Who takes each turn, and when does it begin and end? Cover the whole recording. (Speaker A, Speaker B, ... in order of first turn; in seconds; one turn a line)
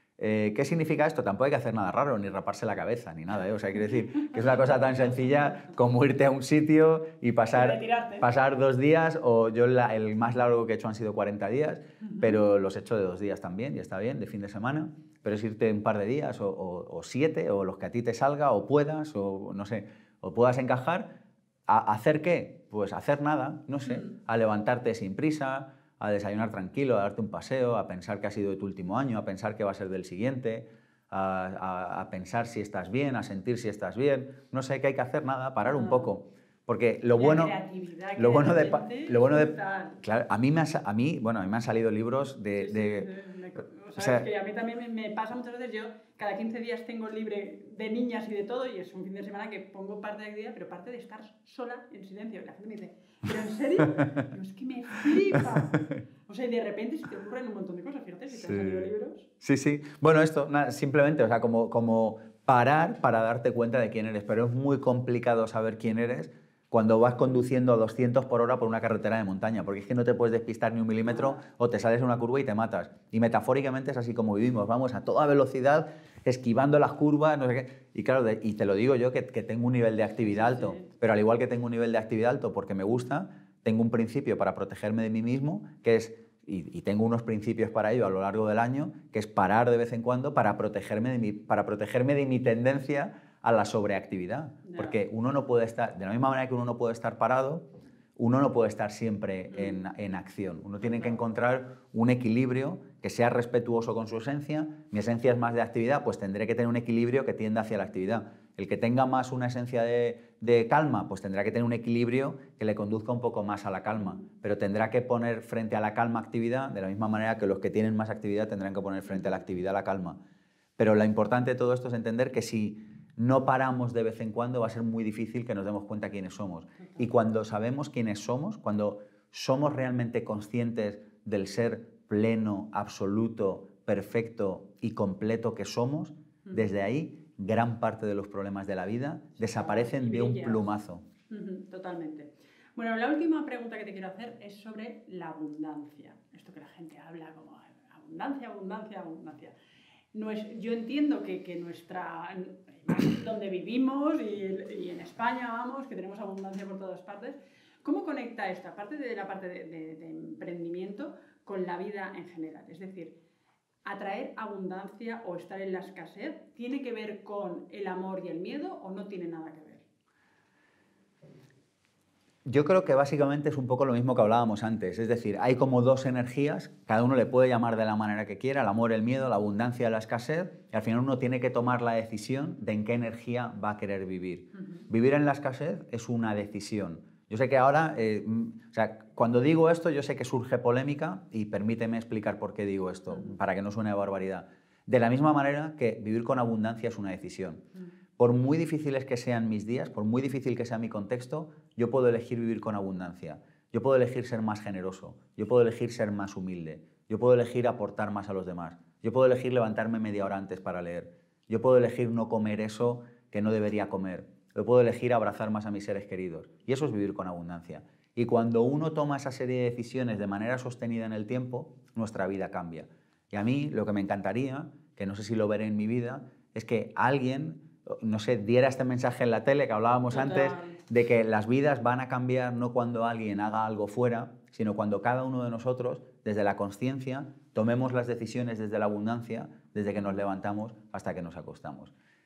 Speaker A: 0.2-21.1
Speaker B: 4.3-5.1
Speaker B: 7.5-8.3
Speaker A: 21.7-37.6
Speaker B: 35.6-36.1
Speaker B: 37.2-40.0
Speaker A: 38.2-43.1
Speaker B: 42.5-59.3
Speaker A: 44.0-44.3
Speaker A: 55.4-56.0
Speaker A: 58.3-120.2
Speaker B: 80.3-80.9
Speaker B: 94.6-95.0
Speaker B: 100.9-101.2
Speaker A: 120.8-141.0
Speaker B: 139.4-140.7
Speaker B: 141.3-149.6
Speaker B: 150.1-163.2
Speaker B: 163.8-169.8
Speaker A: 172.5-197.6
Speaker A: 198.2-241.9
Speaker B: 230.1-230.8